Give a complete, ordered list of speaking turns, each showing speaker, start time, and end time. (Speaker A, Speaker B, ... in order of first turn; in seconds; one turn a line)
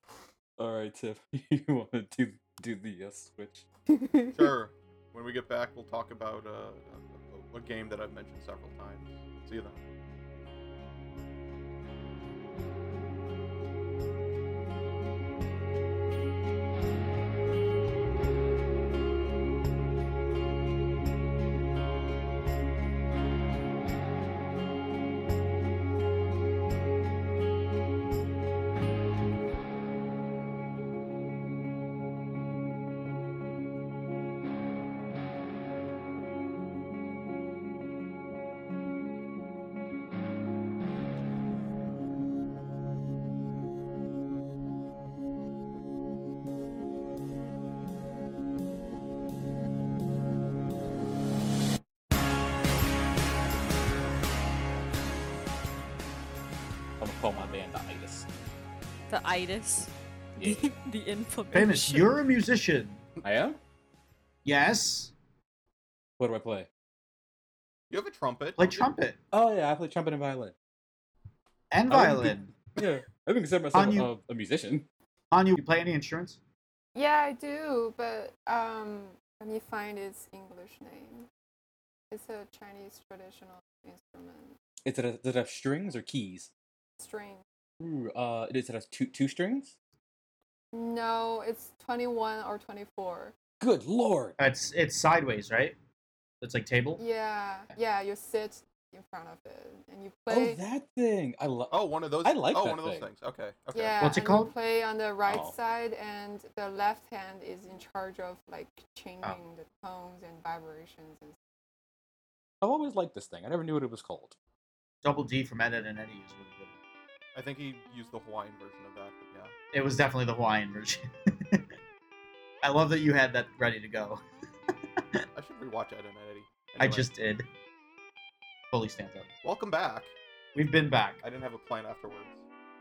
Speaker A: 0.6-3.7
Speaker B: 3.9-4.5
Speaker C: 4.3-9.8
Speaker A: 57.0-58.3
Speaker D: 59.1-62.1
Speaker A: 60.4-60.8
Speaker E: 61.5-63.0
Speaker A: 63.2-63.6
Speaker E: 64.5-65.1
Speaker A: 66.2-66.7
Speaker C: 67.9-68.9
Speaker E: 68.6-69.2
Speaker A: 69.3-70.5
Speaker E: 71.7-72.6
Speaker A: 71.9-74.9
Speaker E: 73.7-74.1
Speaker E: 75.3-76.4
Speaker B: 77.0-81.3
Speaker B: 82.1-84.6
Speaker A: 84.8-86.5
Speaker B: 87.0-87.4
Speaker A: 87.8-89.8
Speaker B: 90.7-93.3
Speaker A: 93.6-94.4
Speaker E: 94.4-95.8
Speaker E: 96.4-97.0
Speaker B: 97.0-100.6
Speaker A: 100.3-103.1
Speaker C: 101.7-104.2
Speaker B: 103.7-111.4
Speaker E: 104.0-104.5
Speaker A: 105.3-105.5
Speaker A: 112.6-114.4
Speaker E: 115.0-116.8
Speaker C: 117.3-119.5
Speaker E: 119.7-121.7
Speaker E: 122.6-124.2
Speaker E: 124.7-125.2
Speaker C: 125.3-127.1
Speaker E: 126.8-127.5
Speaker E: 128.7-129.3
Speaker C: 129.4-130.2
Speaker E: 130.6-131.2
Speaker C: 131.2-132.4